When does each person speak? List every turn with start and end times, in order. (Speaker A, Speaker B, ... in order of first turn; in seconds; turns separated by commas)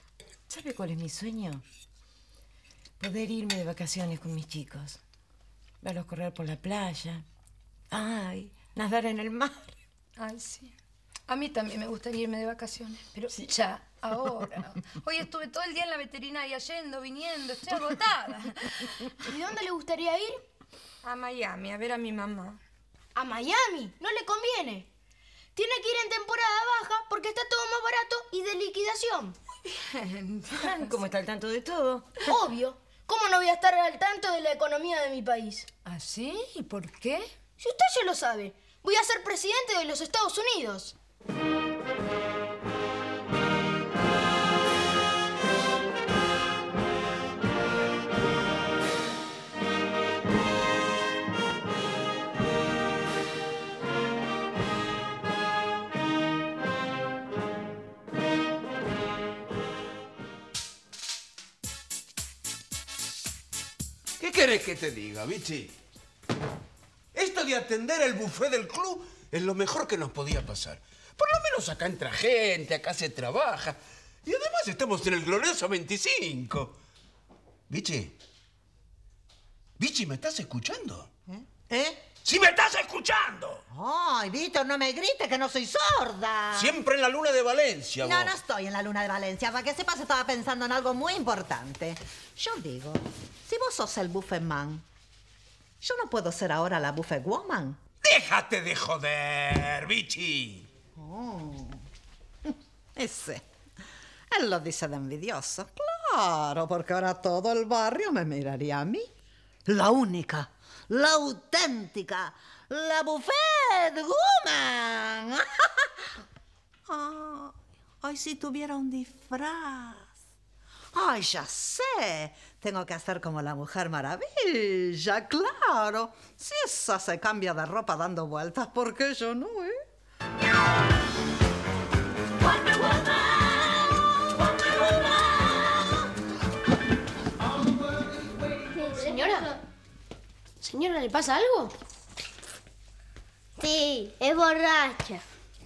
Speaker A: 0.5-1.6, Speaker A: 3.0-5.0, Speaker A: 5.8-7.2, Speaker A: 7.9-9.7, Speaker B: 10.2-10.7, Speaker B: 11.3-18.8, Speaker C: 19.2-20.4, Speaker B: 21.0-22.6, Speaker C: 23.1-24.9, Speaker C: 25.6-29.4, Speaker B: 29.7-30.9, Speaker A: 30.5-32.2, Speaker C: 32.3-35.6, Speaker B: 35.8-37.3, Speaker C: 37.6-40.9, Speaker D: 64.2-65.7, Speaker D: 67.1-76.7, Speaker D: 77.7-78.1, Speaker D: 79.8-81.1, Speaker E: 81.3-82.0, Speaker D: 82.2-83.6, Speaker E: 83.7-86.7, Speaker D: 86.5-88.3, Speaker E: 88.0-94.8, Speaker E: 95.8-97.8, Speaker D: 98.0-100.7, Speaker E: 100.9-101.8, Speaker E: 102.5-103.4, Speaker E: 104.3-109.1, Speaker E: 109.7-116.1, Speaker E: 116.9-120.1, Speaker E: 120.9-129.8, Speaker F: 138.7-139.5, Speaker C: 138.9-139.5, Speaker C: 140.6-141.7, Speaker F: 143.6-145.2